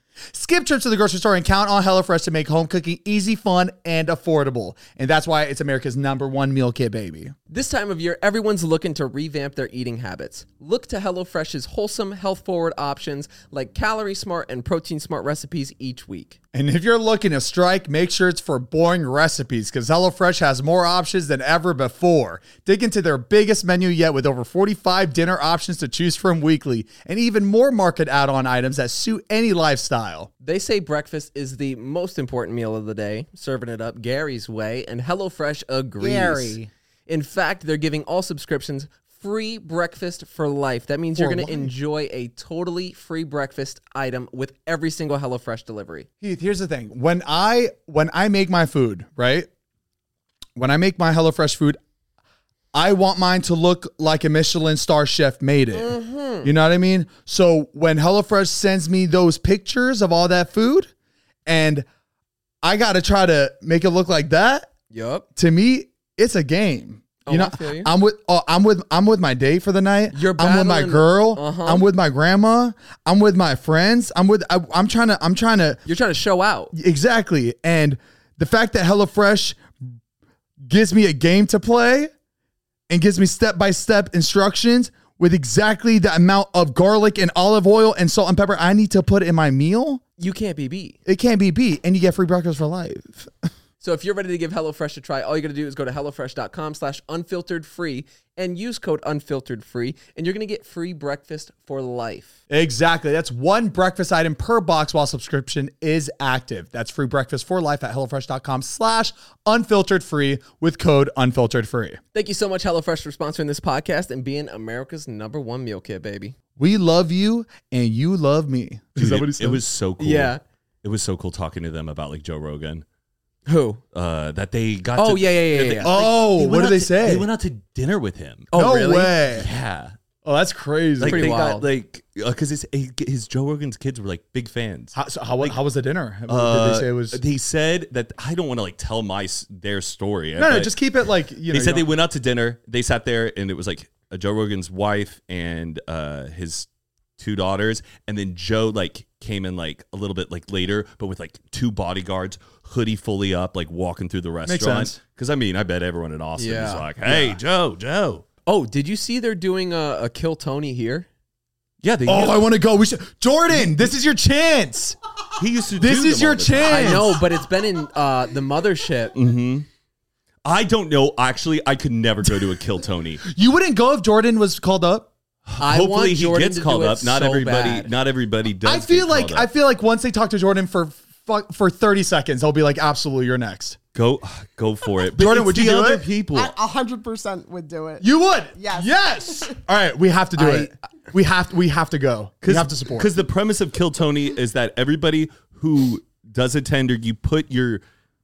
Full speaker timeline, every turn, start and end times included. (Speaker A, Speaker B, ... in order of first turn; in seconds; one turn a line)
Speaker A: 0.3-7.3
Speaker B: 7.5-16.4
Speaker A: 16.5-30.3
Speaker B: 30.4-46.0
Speaker A: 36.0-36.7
Speaker A: 41.1-41.7
Speaker A: 46.2-49.5
Speaker A: 50.5-51.8
Speaker A: 52.7-60.9
Speaker B: 55.7-56.5
Speaker A: 61.5-61.9
Speaker A: 62.6-64.7
Speaker B: 64.9-65.2
Speaker A: 65.3-75.8
Speaker B: 67.2-67.9
Speaker B: 70.1-71.8
Speaker B: 75.8-76.7
Speaker A: 76.7-79.6
Speaker A: 80.6-82.1
Speaker A: 82.9-90.0
Speaker B: 90.2-91.0
Speaker A: 91.0-93.5
Speaker B: 93.8-102.3
Speaker A: 102.5-112.0
Speaker B: 112.1-116.3
Speaker A: 116.6-119.6
Speaker C: 119.0-122.8
Speaker B: 120.0-120.4
Speaker B: 123.5-123.8
Speaker C: 123.9-128.5
Speaker B: 125.0-125.9
Speaker A: 125.8-127.3
Speaker B: 128.5-129.2
Speaker A: 128.5-129.5
Speaker C: 129.3-129.9
Speaker A: 130.2-131.3
Speaker C: 131.0-135.6
Speaker B: 131.1-131.7
Speaker A: 134.9-137.2
Speaker C: 136.3-140.8
Speaker A: 140.4-141.9
Speaker C: 141.5-158.2
Speaker A: 154.4-155.0
Speaker B: 156.4-156.9
Speaker A: 157.0-157.4
Speaker B: 158.4-161.1
Speaker C: 161.8-162.5
Speaker A: 162.1-165.0
Speaker C: 163.5-163.8
Speaker C: 165.4-167.2
Speaker A: 165.8-167.2
Speaker B: 166.7-169.1
Speaker C: 169.1-169.7
Speaker C: 170.4-173.2
Speaker A: 173.2-175.1
Speaker C: 175.5-179.5
Speaker B: 175.6-177.9
Speaker A: 178.6-183.8
Speaker C: 183.9-186.5
Speaker A: 185.1-186.1
Speaker D: 186.3-189.6
Speaker A: 188.0-193.1
Speaker B: 190.4-190.7
Speaker C: 192.4-197.8